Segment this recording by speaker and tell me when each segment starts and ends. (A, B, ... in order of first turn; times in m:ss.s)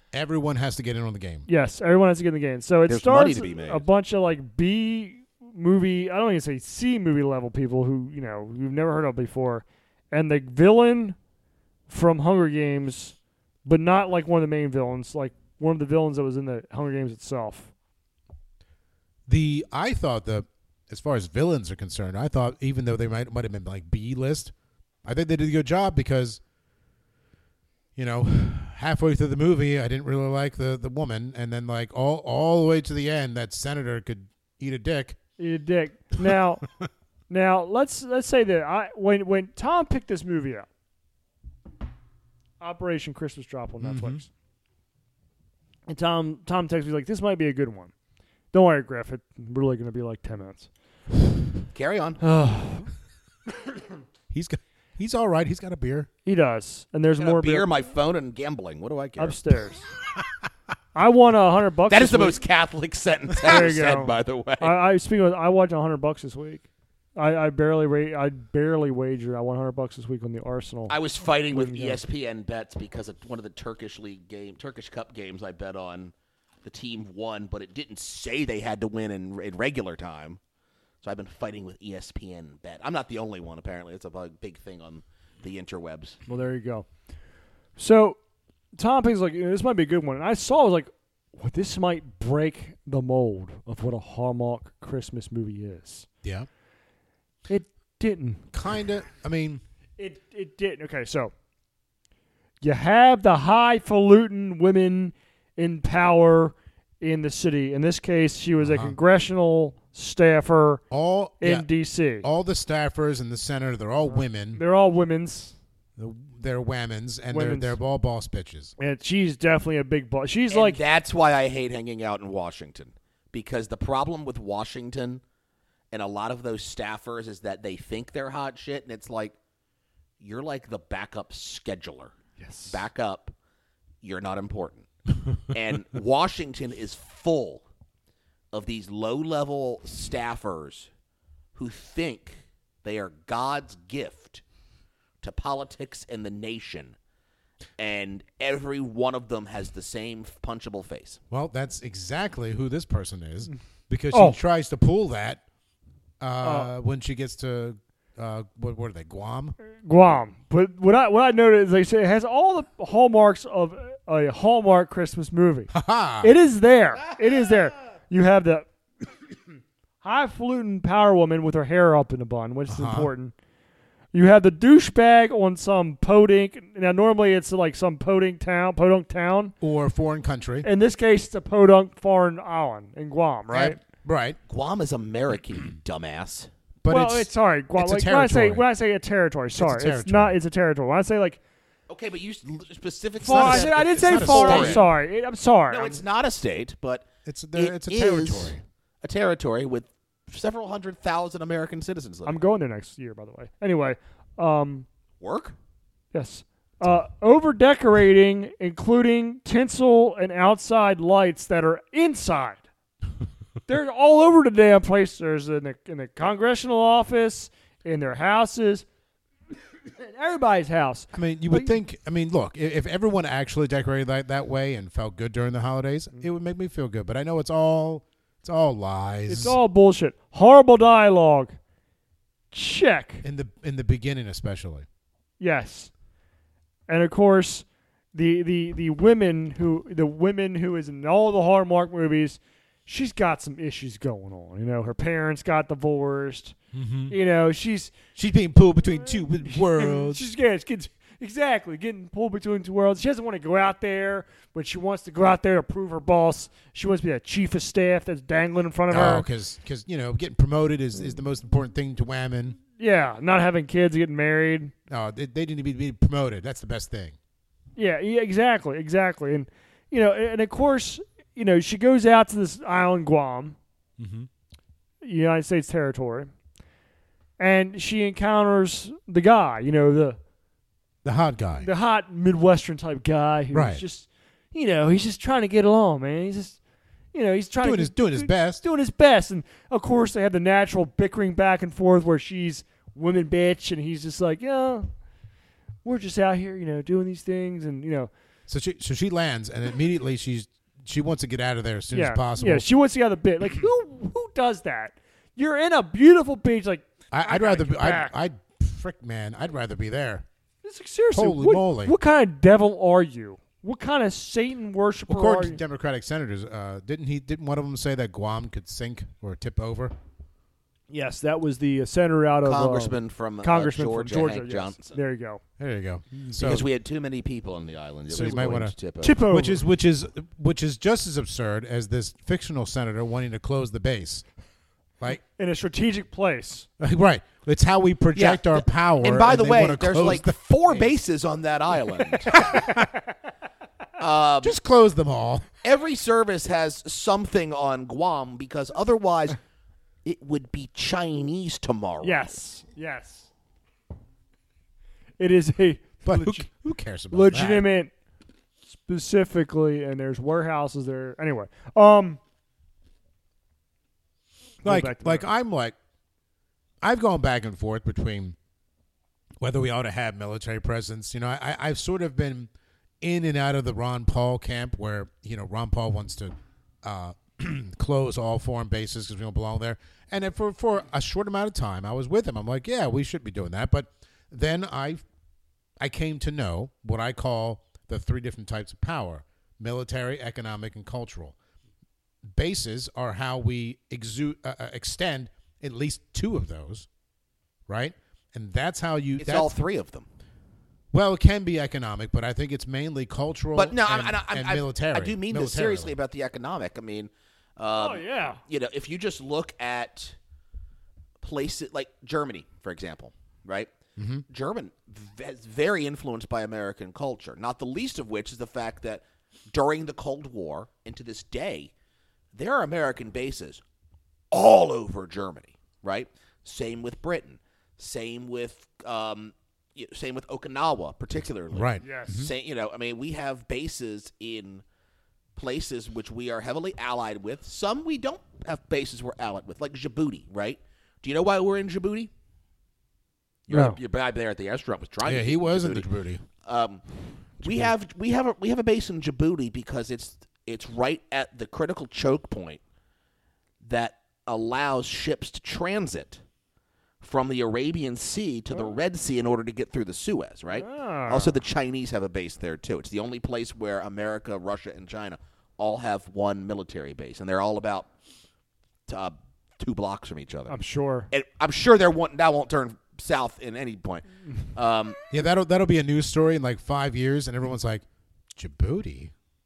0:00.1-0:01.5 A
0:01.5-0:11.2 B
0:02.9-0:03.8 C
0:11.9-0:17.7 B
0:19.3-0:24.5 A
0:25.0-0:26.4 A
0:28.0-0:35.2 A
0:35.4-0:36.6 B
0:37.3-0:40.7 B
0:42.6-0:44.3 B
0:43.8-0:44.2 A
0:45.9-0:47.9 B
0:48.5-0:50.7 B
0:51.7-0:52.2 C
0:52.2-0:52.9 B
0:54.3-0:56.1 A
0:56.2-0:57.7 B
0:57.2-0:59.4 C
0:59.2-0:59.8 B
1:00.9-1:02.4 B
1:01.9-1:04.8 C
1:03.4-1:12.0 B
1:10.9-1:16.1 C
1:16.6-1:20.4 C
1:21.0-1:26.2 C
1:26.3-1:26.9 B
1:27.8-1:28.2 B
1:28.8-1:36.1 B
1:36.2-1:36.5 A
1:37.5-1:38.4 B
1:38.5-1:39.6 A
1:40.0-1:41.3 B
1:42.6-1:50.8 B
1:48.6-1:49.0 A
1:50.9-1:51.6 A
1:51.4-1:52.2 B
1:52.2-1:54.6 A
1:54.1-1:55.6 B
1:56.0-1:58.7 A
1:57.3-1:57.8 B
1:58.8-2:00.8 B
2:00.5-2:05.2 C
2:05.9-2:09.4 C
2:10.2-2:12.2 C
2:12.4-2:12.8 B
2:12.7-2:13.3 C
2:14.0-2:14.9 C
2:15.5-2:17.6 C
2:18.5-2:20.9 C
2:21.5-2:24.4 C
2:25.2-2:27.0 C
2:27.8-2:31.2 C
2:31.3-2:35.4 A
2:34.1-2:34.4 B
2:36.2-2:39.6 A
2:36.4-2:36.7 B
2:39.8-2:48.7 B
2:45.7-2:46.3 A
2:50.0-2:53.3 B
2:52.7-2:53.1 A
2:54.1-2:59.5 B
2:59.6-3:00.7 A
3:00.6-3:03.8 B
3:03.5-3:04.4 A
3:04.5-3:06.5 C
3:06.8-3:08.7 A
3:06.9-3:11.4 B
3:09.6-3:10.4 A
3:11.9-3:14.9 C
3:13.2-3:16.0 B
3:13.3-3:14.9 A
3:15.7-3:22.4 C
3:17.2-3:18.6 A
3:22.2-3:24.8 B
3:25.2-3:25.6 C
3:26.1-3:32.6 B
3:33.7-3:38.8 B
3:39.8-3:41.7 B
3:41.1-3:49.6 A
3:49.3-3:51.6 B
3:52.5-3:53.2 B
3:53.2-3:54.8 A
3:55.4-3:55.9 B
3:56.9-4:06.6 B
4:06.7-4:07.2 A
4:07.1-4:07.9 B
4:08.1-4:10.3 A
4:09.0-4:19.2 B
4:18.9-4:22.6 A
4:22.8-4:24.7 B
4:24.9-4:27.2 A
4:27.8-4:33.6 B
4:34.0-4:34.3 A
4:35.0-4:36.3 B
4:37.4-4:40.2 B
4:41.0-4:41.7 A
4:41.6-4:46.6 B
4:43.5-4:43.8 A
4:47.1-4:54.9 B
4:47.6-4:48.6 A
4:55.8-4:58.1 B
4:58.5-5:02.7 A
5:01.9-5:08.1 B
5:07.1-5:10.2 A
5:10.6-5:15.6 B
5:11.1-5:11.9 A
5:15.1-5:19.9 A
5:20.9-5:25.4 B
5:22.4-5:25.0 C
5:25.6-5:26.6 A
5:26.3-5:29.2 C
5:28.1-5:28.7 A
5:29.0-5:29.6 B
5:29.3-5:34.2 A
5:35.4-5:36.7 B
5:36.8-5:40.9 A
5:38.1-5:42.4 C
5:42.3-5:42.9 A
5:42.4-5:43.1 B
5:44.0-5:44.5 C
5:44.4-5:45.4 A
5:45.6-5:49.4 C
5:50.0-5:52.4 C
5:52.0-5:53.3 B
5:55.2-5:56.4 B
5:56.0-5:57.7 A
5:57.1-5:57.9 B
5:58.7-6:02.2 B
6:04.6-6:05.2 B
6:04.6-6:05.8 A
6:06.8-6:08.4 A
6:09.4-6:25.0 A
6:25.8-6:31.4 A
6:32.2-6:36.9 A
6:37.7-6:39.5 A
6:39.2-6:40.1 C
6:40.9-6:45.9 A
6:43.5-6:50.2 C
6:47.7-6:48.4 B
6:51.2-6:53.7 C
6:54.0-6:54.2 A
6:54.3-7:01.7 C
7:02.3-7:03.6 C
7:04.3-7:14.6 C
7:11.5-7:12.3 A
7:11.8-7:12.2 B
7:15.4-7:22.1 C
7:23.5-7:25.9 C
7:23.5-7:23.8 B
7:25.0-7:26.2 A
7:26.4-7:26.8 C
7:27.4-7:32.6 C
7:27.4-7:27.7 A
7:33.6-7:36.2 C
7:37.0-7:47.9 C
7:40.5-7:41.3 B
7:48.9-7:50.6 C
7:50.5-7:51.1 B
7:51.1-7:55.0 C
7:55.1-7:57.8 A
7:58.3-7:59.1 A